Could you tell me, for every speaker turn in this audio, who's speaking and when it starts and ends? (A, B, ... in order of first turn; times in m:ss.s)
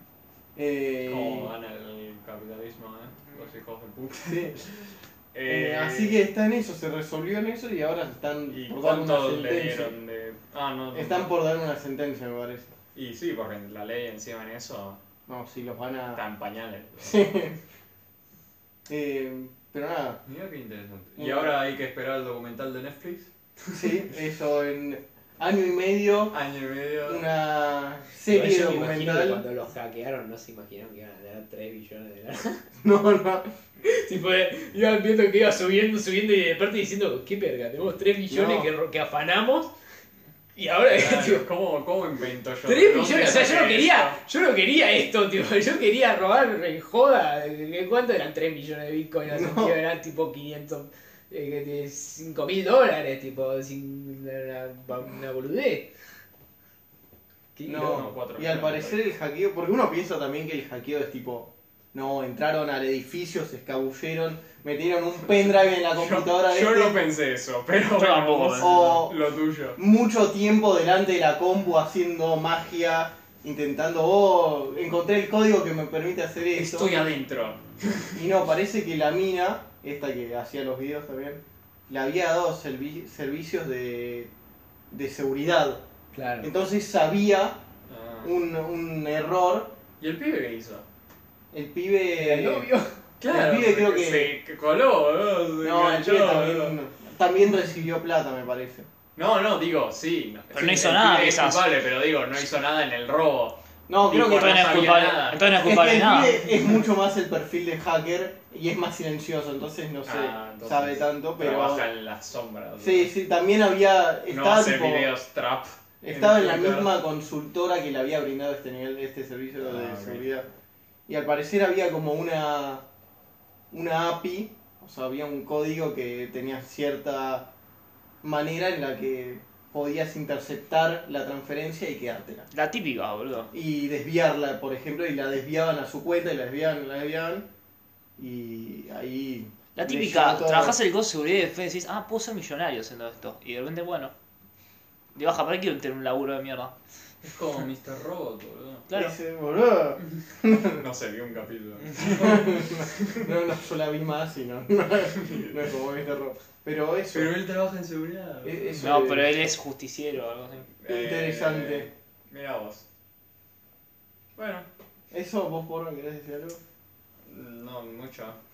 0:00.6-0:01.5 A
0:01.1-0:06.3 B
0:04.3-0:04.6 A
0:05.5-0:10.0 A
0:08.5-0:11.3 B
0:10.9-0:12.7 A
0:13.0-0:15.0 B
0:15.3-0:16.2 A
0:16.1-0:17.5 B
0:17.0-0:17.6 A
0:18.9-0:20.2 A
0:20.3-0:24.0 B
0:21.2-0:21.6 A
0:23.7-0:26.4 A
0:26.3-0:27.3 B
0:27.0-0:29.4 A
0:28.3-0:32.6 C
0:32.8-0:33.5 A
0:33.8-0:39.7 C
0:38.3-0:38.7 A
0:40.6-0:41.5 C
0:40.9-0:44.2 B
0:42.7-0:55.9 C
0:49.3-0:49.8 A
0:57.6-0:58.0 C
0:57.7-1:07.0 A
0:57.7-0:59.0 B
1:05.8-1:09.8 B
1:08.0-1:08.7 D
1:08.6-1:09.2 A
1:09.8-1:17.1 A
1:16.5-1:18.2 B
1:18.1-1:24.3 A
1:24.9-1:25.8 A
1:26.1-1:26.5 C
1:26.4-1:27.6 A
1:27.9-1:28.3 B
1:28.2-1:29.8 A
1:30.0-1:30.8 B
1:31.5-1:32.7 A
1:32.2-1:33.0 C
1:33.2-1:36.8 B
1:33.3-1:34.4 A
1:35.6-1:38.9 A
1:39.2-1:45.5 B
1:40.5-1:41.6 D
1:43.9-1:51.9 A
1:44.3-1:46.5 D
1:50.1-1:53.1 B
1:52.8-1:55.1 A
1:54.3-1:56.9 B
1:56.0-2:00.5 A
1:59.6-2:00.3 B
2:01.1-2:02.8 A
2:03.7-2:07.5 A
2:08.2-2:12.5 A
2:12.5-2:13.5 D
2:13.5-2:17.5 A
2:18.2-2:20.8 A
2:19.8-2:24.1 D
2:25.2-2:26.8 D
2:27.2-2:28.9 B
2:28.9-2:29.2 D
2:28.9-2:30.8 A
2:30.6-2:33.3 B
2:32.0-2:37.3 A
2:37.1-2:39.0 B
2:38.4-2:39.3 A
2:38.8-2:40.7 D
2:40.8-2:42.8 B
2:40.9-2:41.9 A
2:44.4-2:44.7 B
2:45.1-2:46.6 A
2:47.3-2:48.4 B